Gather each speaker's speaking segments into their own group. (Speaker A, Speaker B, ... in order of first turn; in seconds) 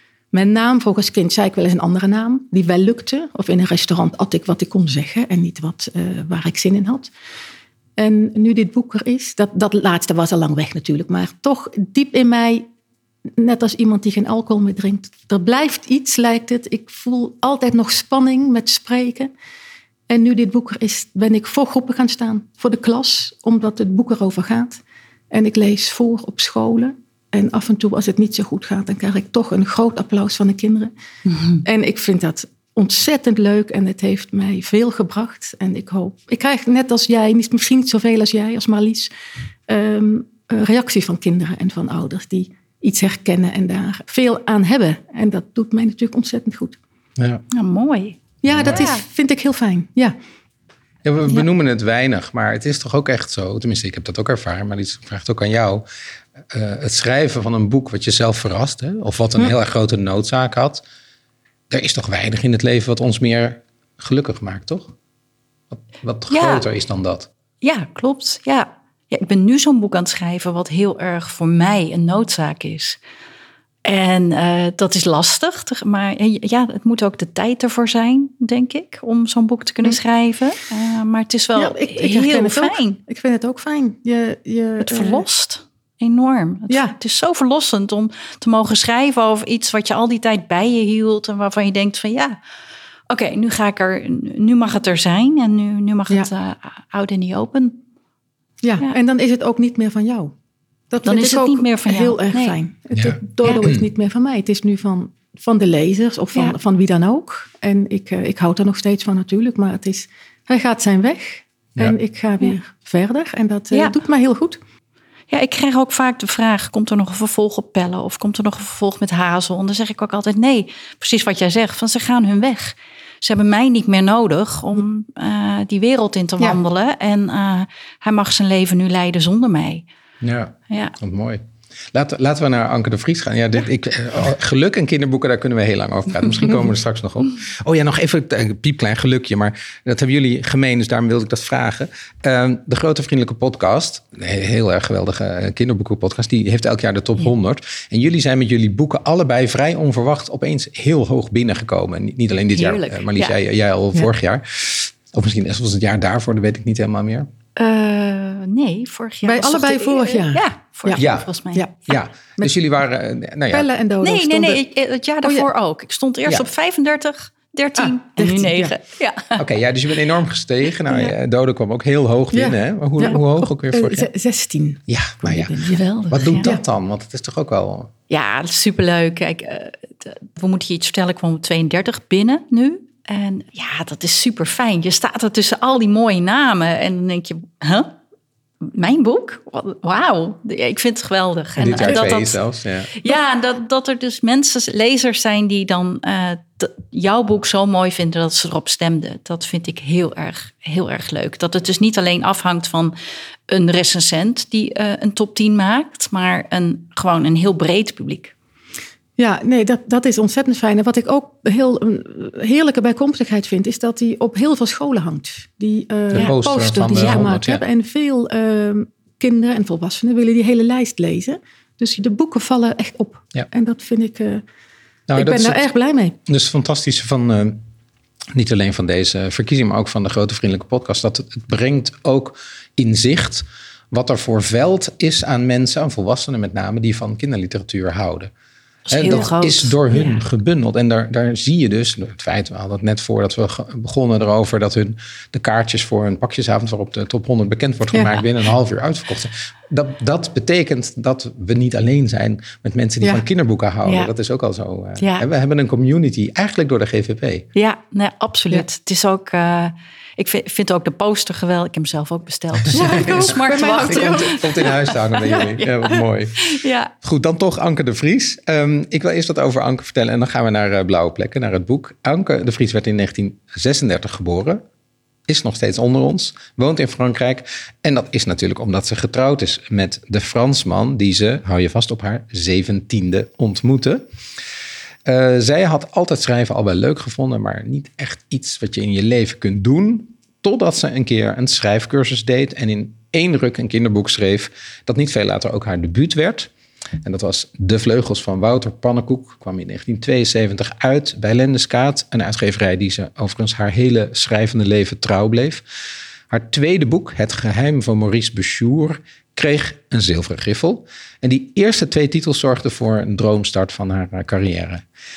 Speaker A: 0.3-7.1, 8.0-12.7, 13.4-19.3, 20.1-30.9, 31.6-39.1, 39.7-46.8, 48.4-50.1, 81.5-85.2, 86.7-86.9, 98.6-100.3, 100.9-114.6, 159.2-161.0, 161.5-162.5, 163.5-164.6, 165.2-165.5, 167.8-168.8, 172.3-176.6, 209.2-224.4, 225.1-226.2, 247.9-248.2, 262.7-264.7, 265.2-265.5
Speaker B: 31.3-31.6, 47.5-49.0, 66.3-66.6, 67.6-73.0, 73.8-83.0, 84.8-92.4, 93.1-97.8, 101.0-102.5, 115.3-129.8, 130.7-130.9, 152.5-153.3, 157.6-161.6, 164.0-169.4, 175.7-176.5, 178.1-187.9, 188.6-192.4, 192.9-202.9, 203.5-208.3, 238.9-240.2, 253.8-254.1, 255.0-255.2, 257.5-266.9
Speaker C: 47.2-47.4, 48.5-48.8, 51.0-55.8, 56.5-60.8, 61.7-64.9, 65.7-67.3, 102.9-103.9, 130.2-131.4, 131.9-157.3, 161.0-161.3, 161.9-163.7, 169.3-174.1, 174.9-175.6, 176.1-177.9, 191.6-192.9, 216.1-217.6, 225.1-225.6, 226.2-227.6, 228.3-238.3, 238.9-257.5, 262.7-274.6, 275.3-284.0, 285.0-296.5, 297.0-305.6, 306.3-314.8